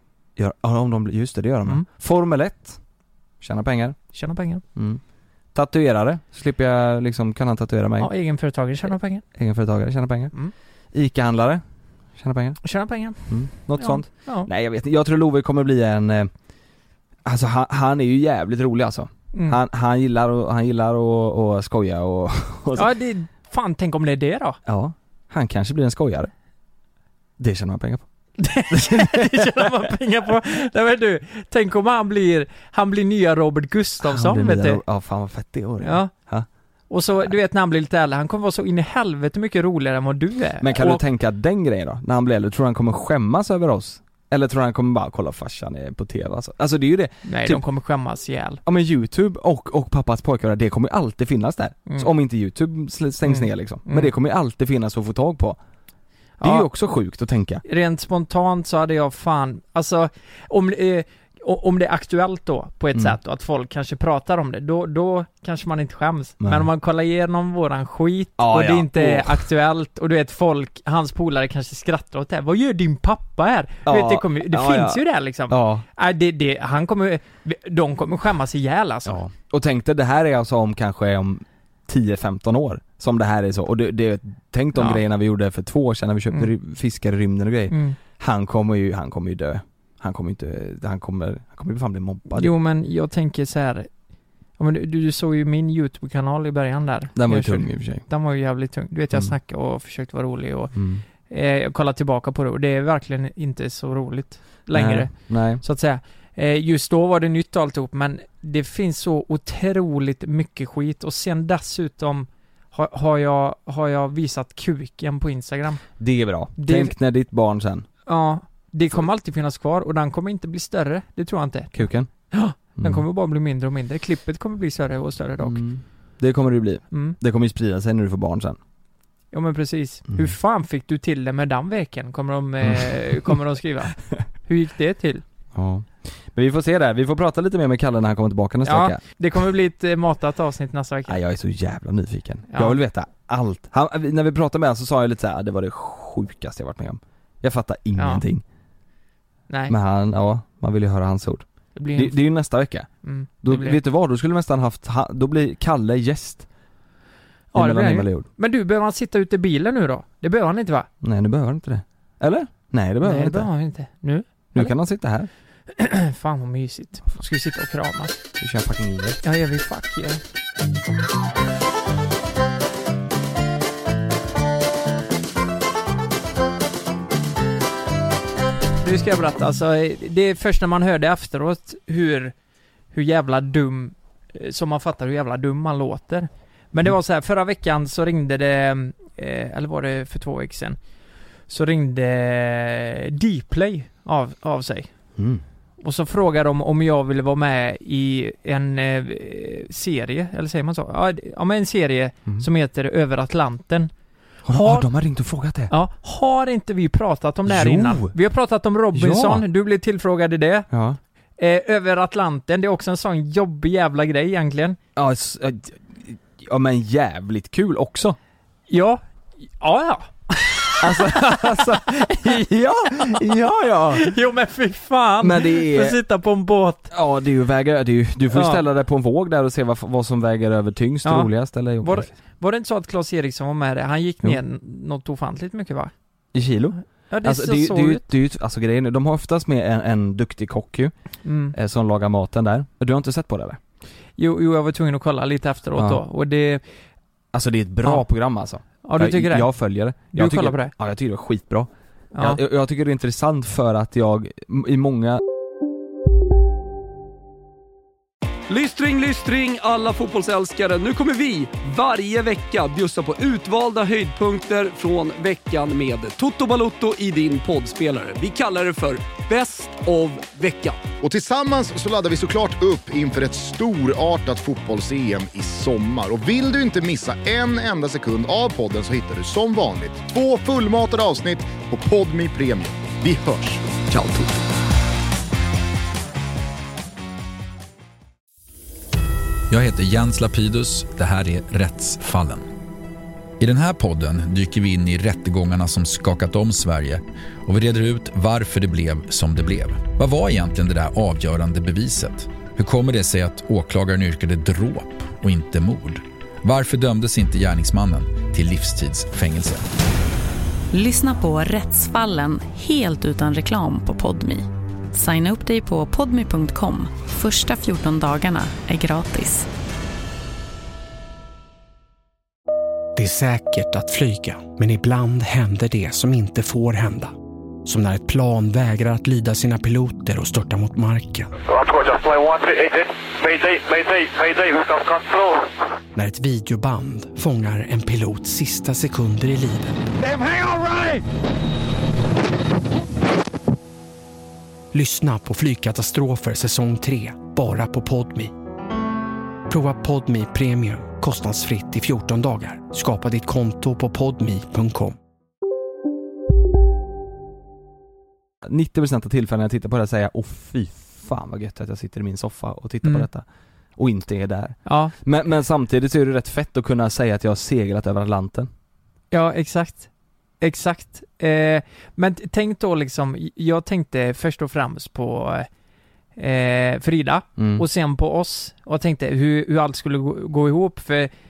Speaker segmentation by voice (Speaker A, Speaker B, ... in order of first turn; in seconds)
Speaker A: 0.4-2.8, 3.4-4.0, 4.8-5.0, 5.5-8.1, 9.3-10.3, 10.9-11.6, 12.2-12.6, 13.3-16.3, 17.2-22.9, 24.7-26.3, 27.4-28.1, 28.7-29.7, 34.0-36.5, 40.6-47.6, 48.6-55.6, 56.4-57.6, 66.4-66.7, 68.4-69.5, 73.9-75.8, 79.1-92.5, 97.2-98.0, 100.8-101.0, 104.7-105.6, 116.0-117.9, 121.7-122.1, 122.8-123.0, 125.4-128.6, 132.6-133.4, 135.6-139.0, 141.1-148.4, 149.7-152.9, 153.4-156.5, 157.5-158.3, 161.0-163.5, 164.5-165.3, 168.4-169.2, 195.2-195.4, 204.5-205.7, 207.5-208.1, 208.9-209.4, 210.7-211.0, 215.0-218.2, 220.8-224.2, 225.2-226.0, 226.9-232.1, 236.3-240.9, 241.5-243.6, 245.8-246.0, 247.3-255.2, 283.9-284.4, 358.4-363.2, 363.8-368.5, 377.4-377.6
Speaker B: 4.1-4.6, 8.0-9.2, 12.6-14.5, 19.3-19.6, 22.8-24.6, 28.4-34.8, 35.8-36.1, 36.9-41.0, 47.3-48.6, 53.2-54.1, 56.4-56.7, 57.6-79.2, 84.8-85.0, 87.7-88.0, 92.3-93.9, 94.6-115.9, 116.6-117.0, 118.1-125.6, 126.9-127.2, 129.3-135.2, 138.7-141.2, 142.5-142.8, 148.0-148.2, 149.5-149.8, 151.8-152.2, 153.0-153.8, 157.5-160.9, 163.0-164.7, 165.7-168.2, 169.2-170.2, 178.8-182.3, 182.9-190.8, 191.5-194.9, 195.8-203.9, 204.5-204.9, 205.7-210.7, 211.4-214.8, 218.7-219.0, 219.5-222.4, 222.9-223.2, 223.9-226.9, 228.3-228.6, 231.1-235.9, 237.1-238.1, 241.2-241.6, 244.2-246.6, 248.8-250.7, 252.1-252.4, 364.6-364.9, 369.1-369.9, 370.4-375.5, 376.2-381.1
Speaker C: 258.5-270.8, 331.5-335.5
Speaker D: 271.0-283.7
Speaker E: 289.5-292.5, 293.4-309.6
Speaker F: 310.7-319.5
Speaker G: 323.0-327.1, 327.6-331.3, 335.9-339.8, 344.7-348.3, 349.5-355.0